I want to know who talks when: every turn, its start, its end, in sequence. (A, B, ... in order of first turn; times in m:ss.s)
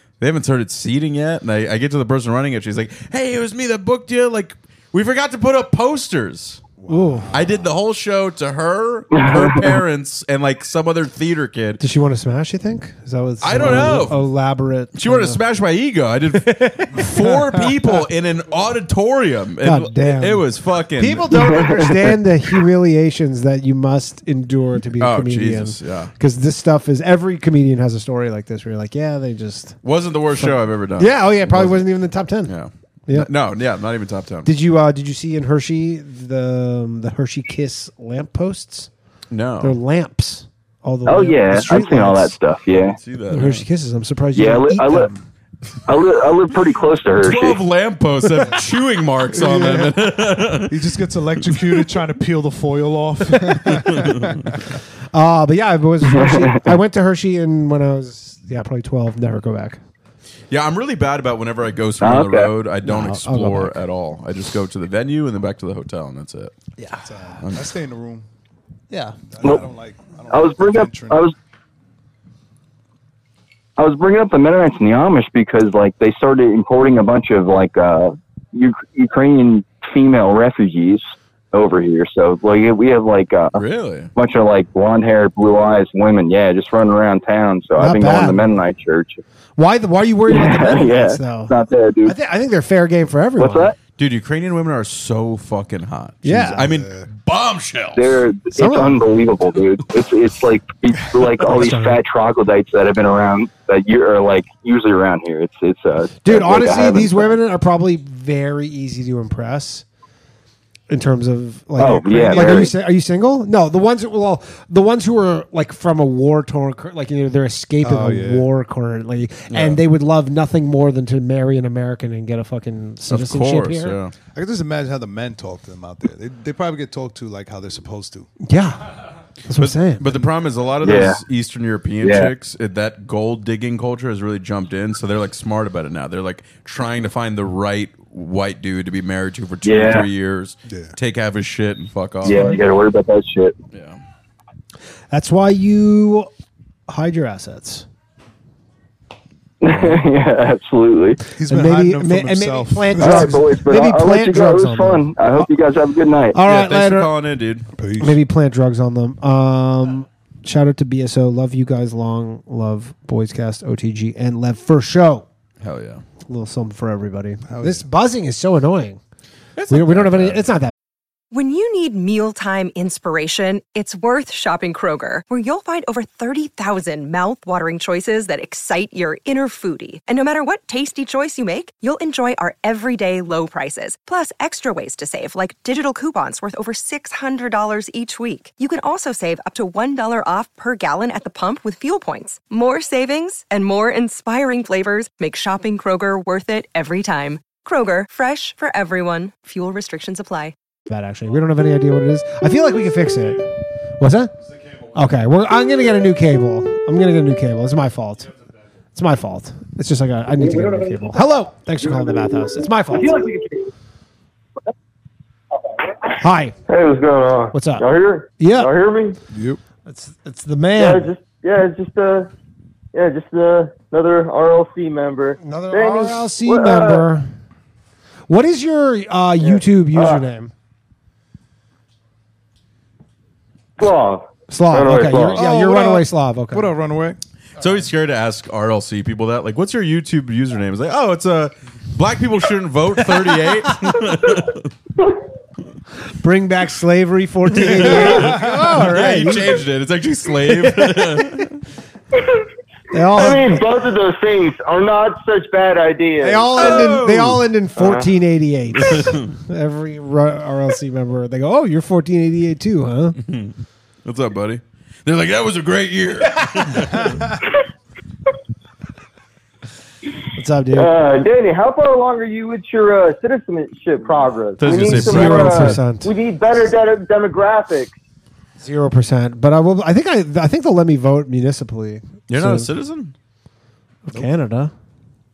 0:00.2-0:06.6 A
0:06.8-0:07.2 B
0:06.9-0:07.3 C
0:07.3-0:11.8 A
0:09.1-0:09.8 D
0:11.8-0:15.4 C
0:13.4-0:14.2 A
0:13.6-0:13.9 B
0:15.0-0:21.6 A
0:16.6-0:17.1 C
0:19.6-0:29.8 C
0:25.0-0:26.1 A
0:29.8-0:31.9 A
0:30.4-0:32.5 C
0:32.5-0:34.5 A
0:34.5-0:38.9 C
0:39.3-0:39.8 A
0:39.6-0:42.4 C
0:41.0-0:43.0 D
0:43.0-0:43.6 A
0:43.3-0:45.1 C
0:44.4-0:45.1 D
0:45.9-0:47.6 D
0:47.2-0:50.7 A
0:49.4-0:49.9 B
0:50.7-0:54.7 B
0:53.3-0:53.9 C
0:53.8-0:54.3 A
0:55.1-0:59.8 C
0:56.0-0:56.7 D
1:00.5-1:06.5 A
1:02.0-1:02.5 D
1:02.8-1:03.9 C
1:07.0-1:08.3 B
1:07.4-1:07.7 A
1:08.9-1:11.2 B
1:10.3-1:11.3 D
1:13.8-1:23.6 D
1:23.6-1:24.1 A
1:24.2-1:29.2 D
1:27.8-1:28.6 C
1:29.6-1:33.7 C
1:30.3-1:32.2 D
1:33.4-1:33.8 D
1:34.0-1:38.2 A
1:36.2-1:36.7 C
1:36.3-1:37.1 B
1:38.0-1:47.4 D
1:38.6-1:39.0 C
1:41.4-1:42.0 C
1:46.2-1:49.8 C
1:50.9-2:04.0 C
1:51.8-1:52.7 D
1:52.1-1:52.7 B
1:57.8-1:58.5 B
1:59.5-1:59.8 A
2:03.1-2:04.1 A
2:04.4-2:08.3 B
2:08.4-2:08.8 C
2:09.5-2:10.2 C
2:09.6-2:22.6 A
2:10.8-2:11.2 D
2:12.0-2:12.3 D
2:19.6-2:20.1 D
2:20.7-2:20.9 B
2:22.2-2:23.6 D
2:23.7-2:24.0 A
2:25.1-2:26.3 C
2:26.9-2:27.9 C
2:29.6-2:31.2 D
2:31.4-2:33.4 B
2:31.5-2:35.5 C
2:33.0-2:36.4 D
2:36.3-2:37.1 C
2:36.4-2:37.7 A
2:37.8-2:38.2 B
2:38.0-2:45.3 C
2:45.6-2:46.0 A
2:46.3-2:49.0 C
2:47.5-2:47.8 B
2:49.6-2:50.5 A
2:49.7-2:50.7 C
2:51.3-3:20.6 E
3:20.9-3:24.3 C
3:24.9-3:28.3 C
3:29.0-3:33.2 C
3:32.9-3:33.7 F
3:36.2-3:36.5 C
3:36.7-3:39.2 F
3:37.5-3:37.9 C
3:38.4-3:38.7 C
3:39.3-3:39.6 B
3:39.9-3:41.1 C
3:40.8-3:42.3 F
3:42.9-3:47.1 F
3:45.4-3:47.3 C
3:48.3-3:50.5 C
3:49.4-3:50.2 F
3:53.8-3:55.4 F
3:54.5-3:56.7 C
3:55.3-3:57.2 B
3:57.6-4:04.7 A
4:06.2-4:09.6 C
4:07.6-4:11.6 A
4:07.8-4:09.3 B
4:10.6-4:11.4 C
4:12.9-4:13.6 C
4:13.1-4:17.0 F
4:16.2-4:23.2 C
4:16.6-4:17.4 A
4:17.8-4:18.1 F
4:18.8-4:19.3 A
4:23.2-4:23.5 A
4:24.0-4:27.2 A
4:27.0-4:27.4 B
4:30.4-4:30.9 C
4:30.7-4:37.9 F
4:34.6-4:35.8 A
4:34.8-4:36.1 C
4:38.6-4:42.7 C
4:42.3-4:43.2 A
4:44.1-4:44.7 C